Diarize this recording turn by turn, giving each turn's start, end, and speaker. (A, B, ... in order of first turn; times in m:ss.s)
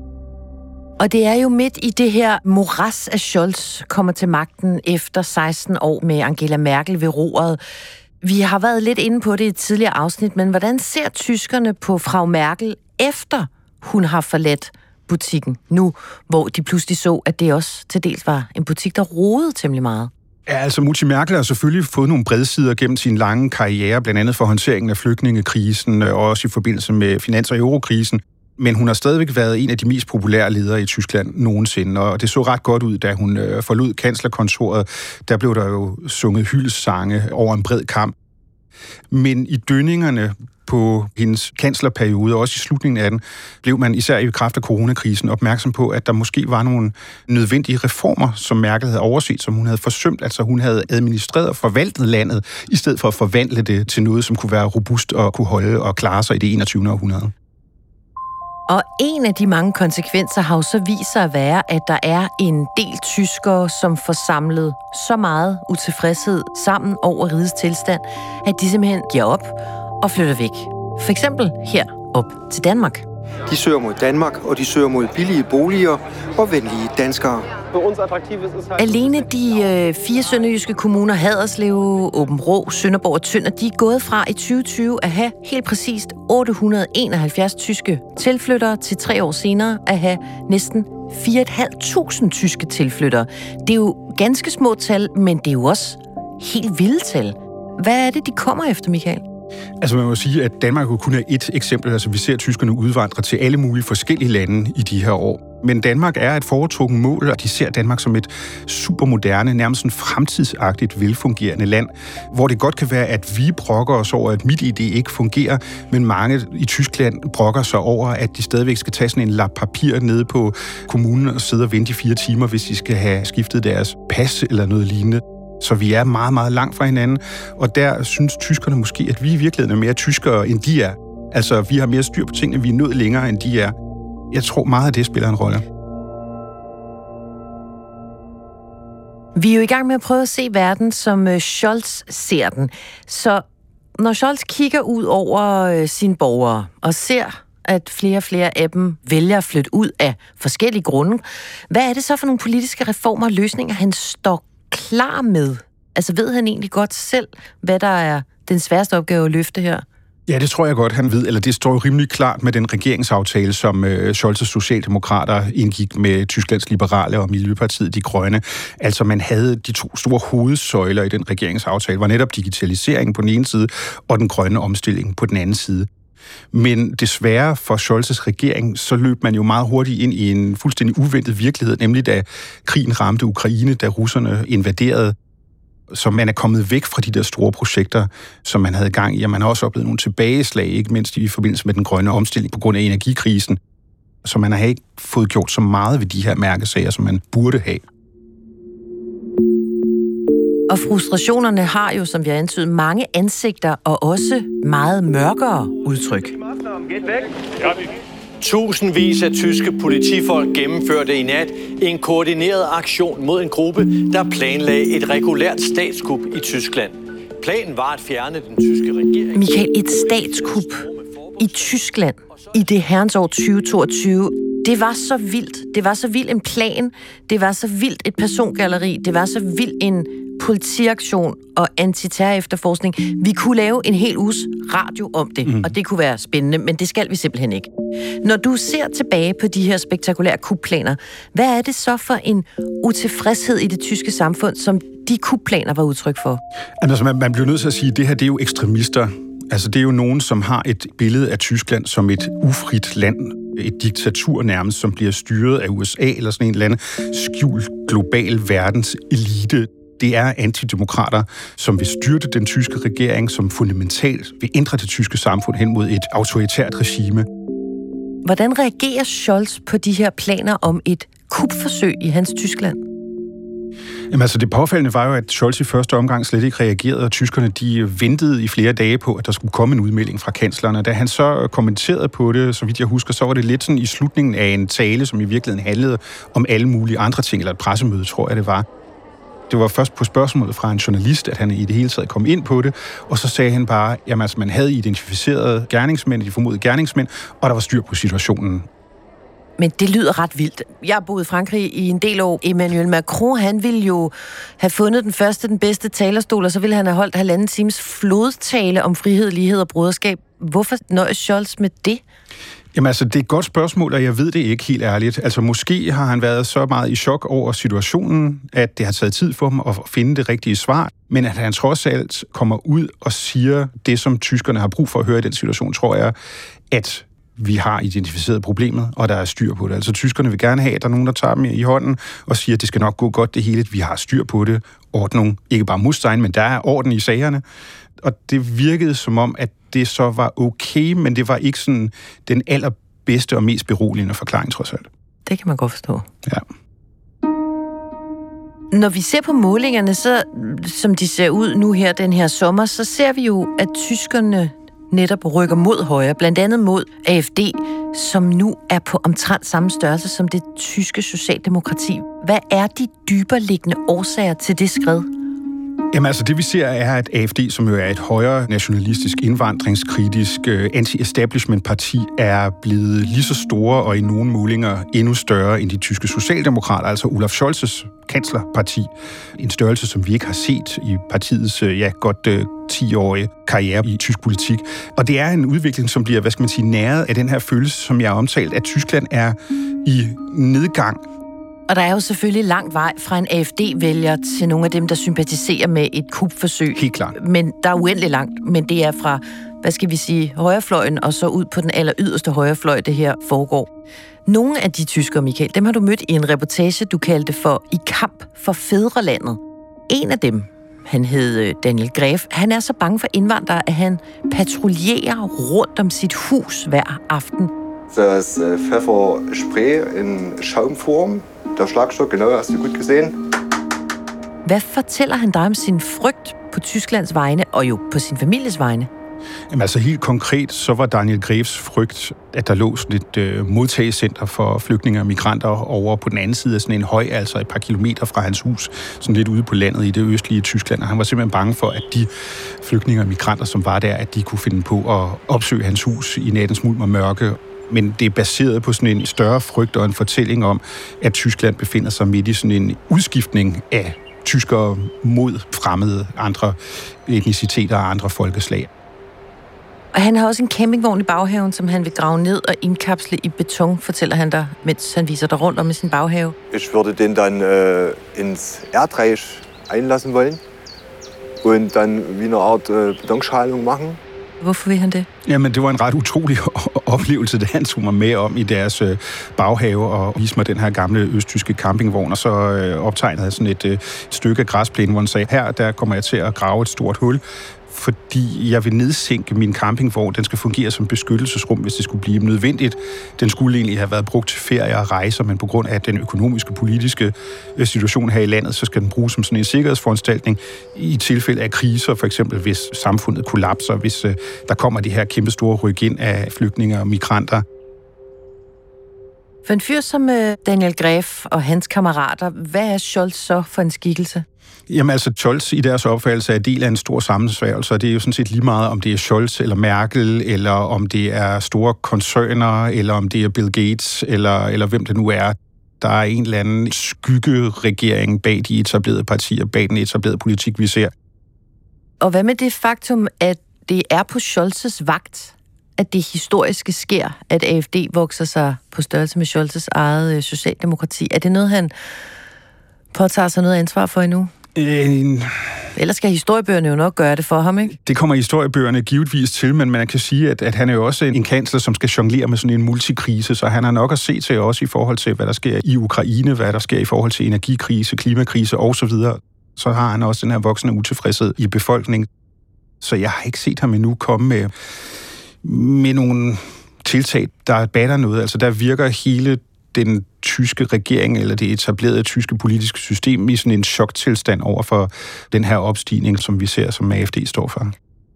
0:01.0-0:07.6 A
0:08.2-0:20.1 A
0:20.5-0:38.2 B
0:39.1-0:57.3 B
0:58.7-1:13.0 A
1:13.5-1:17.5 C
1:18.8-1:39.2 A
1:39.8-2:13.8 B
2:14.3-2:15.6 B
2:19.4-2:23.4 A
2:24.0-2:39.8 A
2:40.3-2:55.9 B
2:56.5-3:05.2 B
3:05.9-3:13.6 B
3:14.2-3:17.8 B
3:20.7-3:26.3 A
3:27.6-3:27.9 D
3:28.4-3:39.5 D
3:39.3-3:40.9 A
3:40.5-3:41.5 D
3:41.4-3:57.7 A
3:55.4-3:55.7 B
3:58.2-4:06.4 A
4:06.8-4:27.3 B
4:28.2-4:32.8 A
4:34.1-4:48.7 B
4:49.5-4:58.7 B
4:59.6-5:12.0 A
5:12.7-5:26.2 B
5:26.7-5:37.4 B
5:38.0-5:44.9 B
5:45.3-5:46.1 A
5:48.7-6:05.1 A
6:05.9-6:31.0 B
6:31.7-6:43.7 A
6:36.7-6:37.2 B
6:44.3-6:57.5 A
6:57.9-7:03.2 E
7:04.4-7:08.9 A
7:09.5-7:22.1 B
7:22.6-7:38.7 B
7:39.9-7:46.4 A
7:46.5-7:50.4 E
7:51.4-7:54.0 E
7:54.4-7:55.1 A
7:55.3-8:27.4 B
8:29.5-8:34.3 A
8:34.7-8:50.9 B
8:52.0-9:01.7 A
9:02.9-9:04.3 A
9:04.6-9:05.5 B
9:05.8-9:07.8 A
9:07.8-9:22.1 B
9:22.8-9:24.5 B
9:25.4-9:37.7 B